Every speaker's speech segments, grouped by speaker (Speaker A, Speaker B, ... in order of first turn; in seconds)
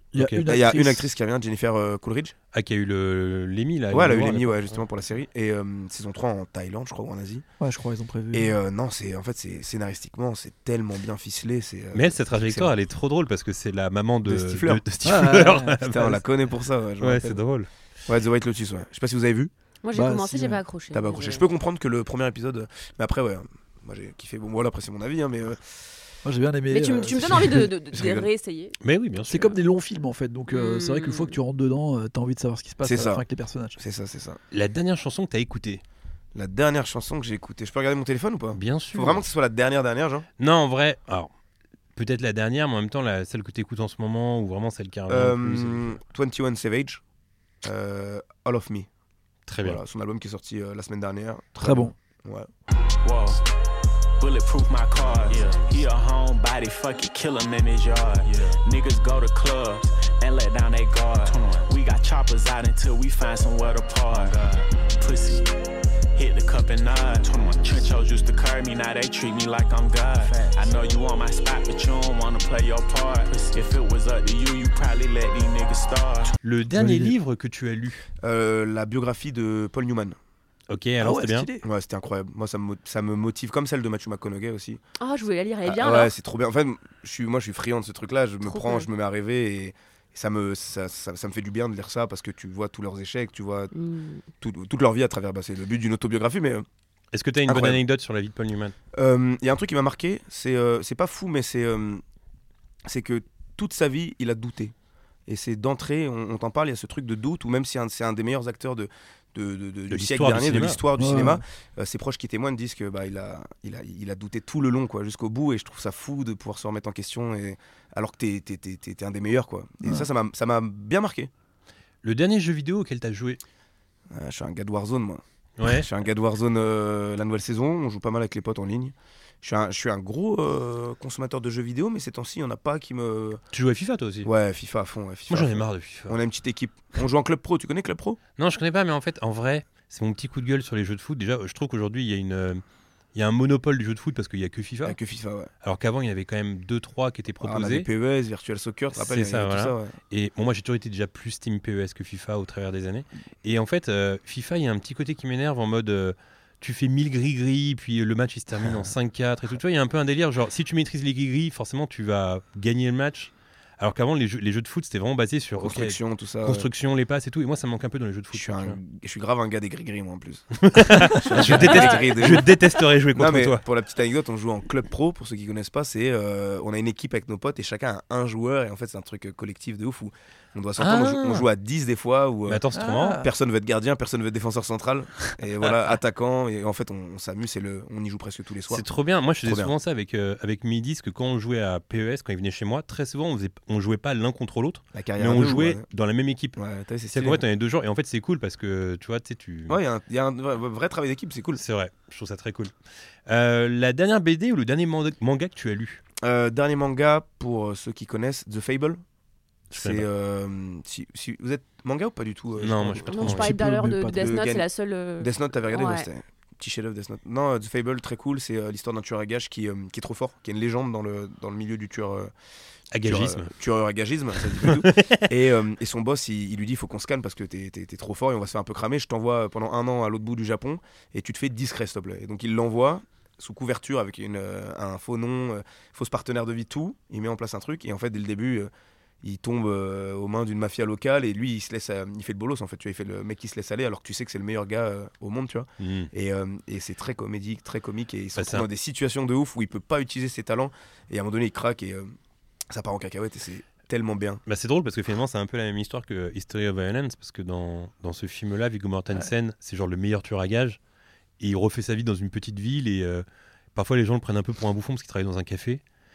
Speaker A: 0.1-1.0, 7.6-8.5, 15.0-16.1, 19.9-20.6, 26.2-27.7, 29.3-33.8, 51.6-51.9, 76.7-77.1, 81.0-81.6, 111.0-111.4, 182.7-183.3, 213.2-214.4
Speaker B: 0.1-0.4, 2.5-4.8, 11.9-16.2, 17.0-17.7, 28.8-29.5, 34.5-35.8, 38.5-39.2, 40.4-41.3, 42.0-45.9, 49.5-49.8, 76.4-78.0, 80.7-81.5, 97.1-98.7, 109.9-110.8, 122.0-123.4, 125.6-125.9, 133.5-134.3, 135.3-136.2, 138.4-142.6, 143.1-145.0, 145.6-147.9, 148.9-168.8, 170.6-173.6, 180.8-181.5, 182.4-183.2, 188.7-196.6, 197.1-199.8, 201.5-202.7, 203.2-206.0, 209.7-210.1, 212.6-213.5, 222.9-223.5, 224.3-225.3, 245.8-246.1, 248.3-248.7, 254.4-260.8, 261.4-265.8
Speaker C: 0.5-2.3, 3.9-7.4, 8.3-12.7, 14.2-14.8, 15.8-17.4, 18.1-19.5, 20.9-25.8, 27.9-28.3, 32.8-33.2, 33.8-34.4, 36.3-40.3, 45.1-47.0, 47.6-48.9, 49.6-52.5, 78.2-80.2, 81.6-84.8, 85.6-93.7, 94.4-96.6, 97.5-97.8, 98.9-102.0, 102.8-104.7, 105.3-121.3, 124.1-133.4, 134.2-138.2, 144.8-145.5, 147.4-149.9, 165.6-166.7, 168.3-172.5, 173.1-182.6, 183.2-188.8, 189.4-189.7, 194.9-195.8, 196.6-197.4, 199.7-201.6, 206.2-209.0, 209.7-213.3, 214.2-214.7, 215.2-222.3, 223.0-238.7, 239.2-252.1, 252.7-254.4
Speaker D: 19.8-21.4, 26.7-28.8, 30.5-31.4, 85.0-86.1, 88.4-88.9, 93.7-94.2, 171.5-172.4, 213.1-216.1
Speaker E: 53.0-53.4, 54.2-65.5, 66.1-76.3